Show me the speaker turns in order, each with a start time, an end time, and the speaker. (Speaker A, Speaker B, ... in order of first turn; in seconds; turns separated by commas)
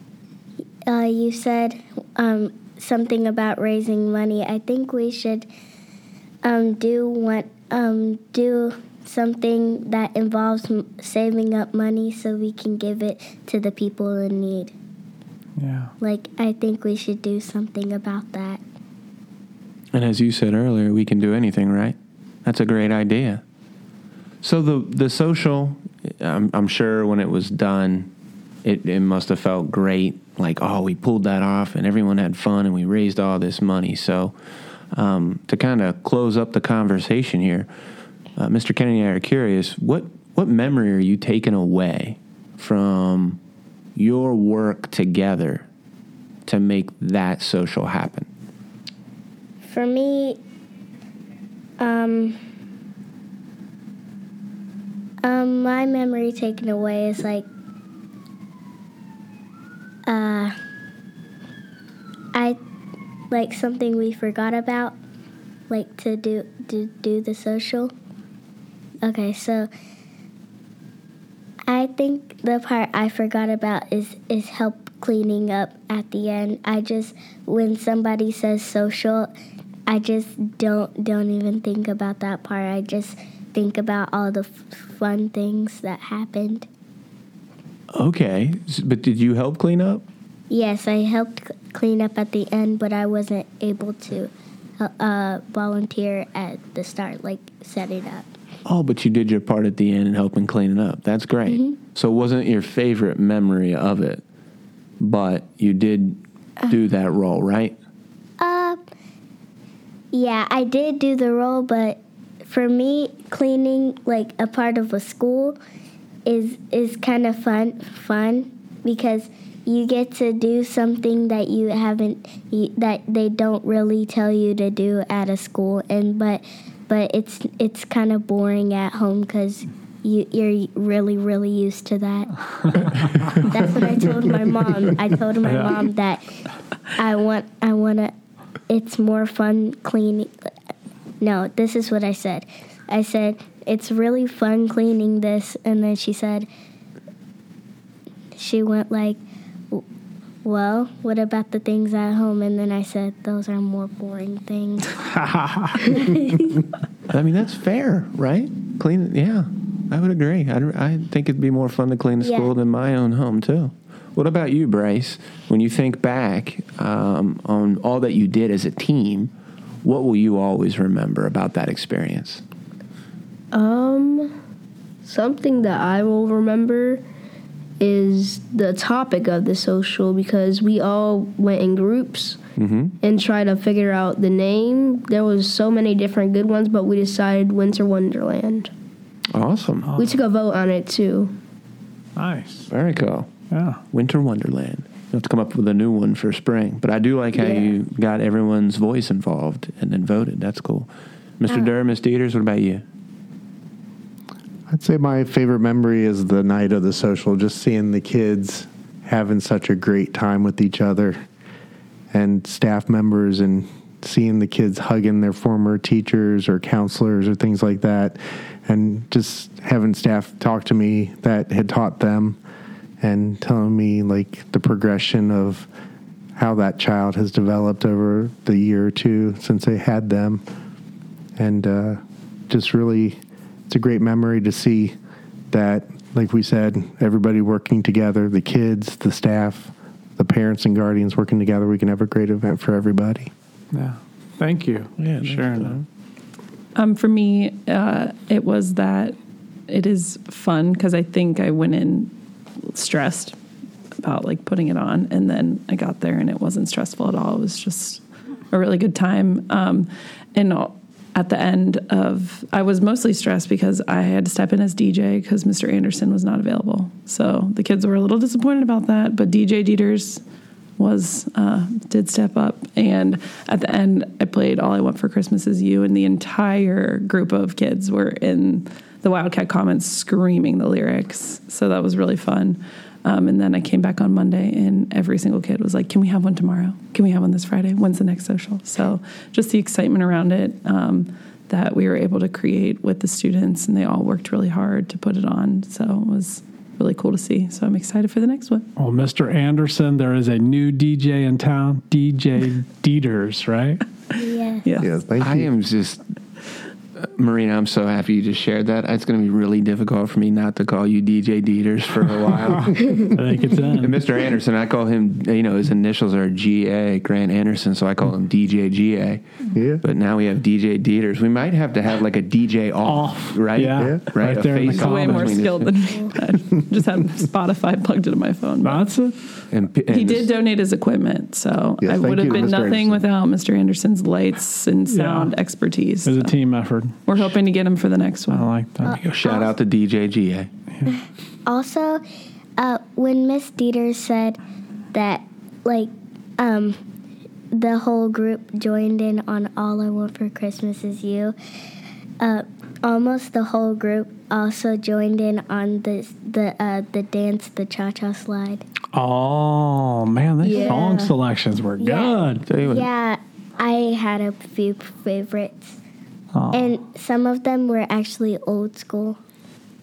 Speaker A: 0.9-5.5, Speaker A: 6.4-14.7, Speaker B: 15.6-15.9, Speaker A: 16.0-18.6, Speaker C: 19.9-23.4, Speaker C: 24.4-28.1, Speaker C: 28.6-34.3, Speaker C: 34.9-37.7, Speaker C: 38.4-43.4, Speaker C: 44.0-45.7, Speaker C: 46.5-48.3, Speaker A: 49.7-50.4, Speaker A: 51.8-52.4, Speaker A: 55.2-57.5, Speaker A: 60.1-60.5, Speaker A: 63.3-65.0, Speaker A: 65.7-67.9, Speaker A: 69.0-69.7, Speaker A: 71.7-79.3, Speaker A: 79.9-86.7, Speaker C: 87.9-90.0, Speaker A: 90.5-98.3, Speaker C: 98.7-104.2, Speaker A: 101.5-101.8, Speaker C: 105.0-107.8, Speaker A: 108.4-108.8, Speaker A: 110.1-115.6, Speaker A: 116.3-136.2, Speaker B: 135.4-135.8, Speaker A: 136.9-138.1, Speaker A: 138.7-140.3, Speaker A: 141.2-146.5, Speaker A: 148.4-149.2, Speaker A: 150.4-154.9, Speaker B: 155.3-155.9, Speaker A: 155.9-156.5, Speaker C: 157.1-169.3, Speaker A: 162.2-162.5, Speaker C: 169.8-172.4, Speaker D: 173.5-174.3, Speaker D: 175.0-177.0, Speaker D: 177.8-182.4, Speaker C: 182.6-182.9, Speaker D: 183.0-188.7, Speaker C: 189.3-189.9, Speaker B: 189.8-190.2, Speaker D: 190.0-191.3, Speaker B: 192.2-192.7, Speaker C: 192.7-193.3, Speaker B: 193.5-193.8, Speaker C: 193.9-200.9, Speaker D: 197.4-197.7, Speaker C: 201.4-202.8, Speaker E: 204.7-211.2, Speaker E: 212.1-222.4, Speaker E: 223.0-225.7, Speaker E: 226.4-230.4, Speaker E: 231.4-234.9, Speaker E: 235.5-243.3, Speaker B: 243.7-245.8, Speaker C: 245.0-245.8, Speaker F: 246.8-249.2, Speaker F: 249.7-253.4, Speaker F: 254.0-270.2, Speaker F: 270.8-298.7, Speaker B: 298.8-303.8, Speaker A: 304.1-304.7, Speaker F: 304.6-304.9, Speaker E: 304.8-305.5, Speaker C: 305.2-306.0, Speaker C: 307.0-319.2, Speaker B: 313.1-314.0, Speaker E: 319.5-319.8, Speaker C: 319.8-325.7, Speaker B: 322.8-325.4, Speaker E: 323.8-324.0, Speaker F: 324.7-328.8, Speaker B: 328.6-329.2, Speaker C: 329.5-330.3, Speaker F: 329.9-336.4, Speaker E: 331.8-333.0, Speaker B: 334.9-335.3, Speaker B: 336.1-337.2, Speaker F: 337.1-338.5, Speaker B: 338.3-339.0, Speaker A: 338.8-339.5, Speaker C: 338.9-340.5, Speaker A: 340.9-342.0, Speaker A: 342.6-344.4, Speaker A: 344.9-346.8, Speaker A: 347.5-351.4, Speaker A: 352.2-358.6, Speaker B: 358.9-362.5, Speaker D: 360.4-361.1, Speaker A: 360.4-360.8, Speaker A: 361.8-365.8, Speaker C: 362.5-362.9, Speaker B: 366.4-366.7, Speaker A: 366.5-369.2